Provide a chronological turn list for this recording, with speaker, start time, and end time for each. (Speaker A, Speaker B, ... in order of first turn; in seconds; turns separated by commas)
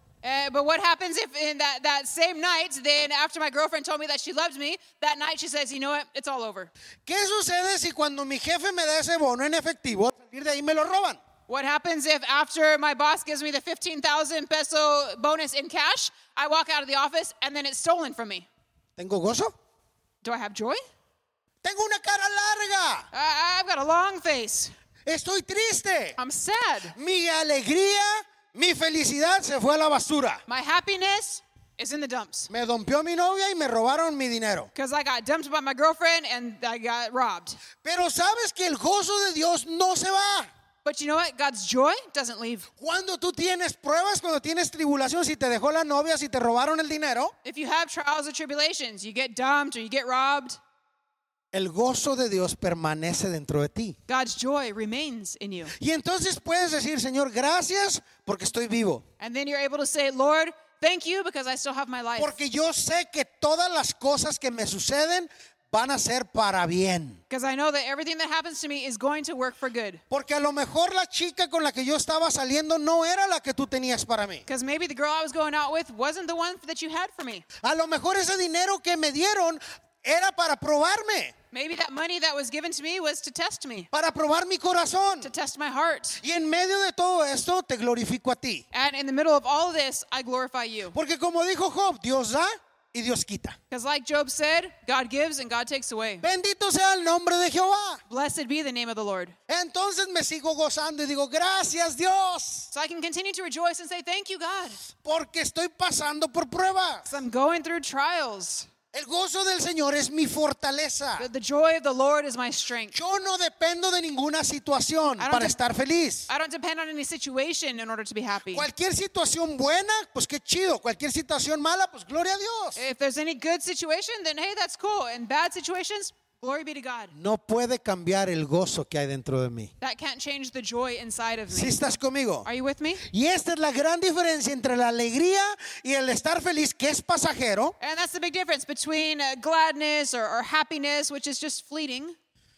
Speaker A: 0.2-6.7, Speaker B: 7.0-11.2, Speaker A: 11.5-18.5, Speaker B: 19.0-19.5, Speaker A: 20.2-20.8, Speaker B: 21.6-23.1, Speaker A: 23.1-24.7, Speaker B: 25.1-26.2, Speaker A: 26.2-26.9, Speaker B: 26.9-30.4, Speaker A: 30.5-32.5, Speaker B: 32.5-34.7, Speaker A: 34.7-37.6, Speaker B: 37.8-40.5, Speaker A: 40.8-42.7, Speaker B: 42.8-47.3, Speaker A: 47.4-50.6, Speaker B: 51.5-54.0, Speaker A: 54.1-55.7, Speaker B: 55.8-59.0, Speaker A: 59.2-62.3, Speaker B: 62.2-67.2, Speaker A: 67.3-70.0, Speaker B: 70.1-74.5, Speaker A: 74.5-77.4, Speaker B: 77.6-81.3, Speaker A: 81.5-83.9, Speaker B: 83.9-85.3, Speaker A: 85.2-86.2, Speaker B: 86.2-88.6, Speaker A: 88.7-91.0, Speaker B: 90.9-93.6, Speaker A: 93.7-96.2, Speaker B: 96.2-98.0, Speaker A: 98.1-99.3, Speaker B: 99.5-102.7, Speaker A: 102.7-104.8, Speaker B: 104.9-107.0, Speaker A: 107.0-108.7, Speaker B: 108.9-111.3, Speaker A: 111.2-113.0, Speaker B: 112.9-116.3, Speaker A: 115.2-115.5, Speaker A: 116.3-118.7, Speaker B: 118.5-122.8, Speaker A: 122.8-127.1, Speaker B: 127.1-129.7, Speaker A: 129.8-131.8, Speaker B: 131.5-132.5, Speaker A: 132.4-133.0, Speaker B: 133.1-137.8, Speaker A: 137.8-142.1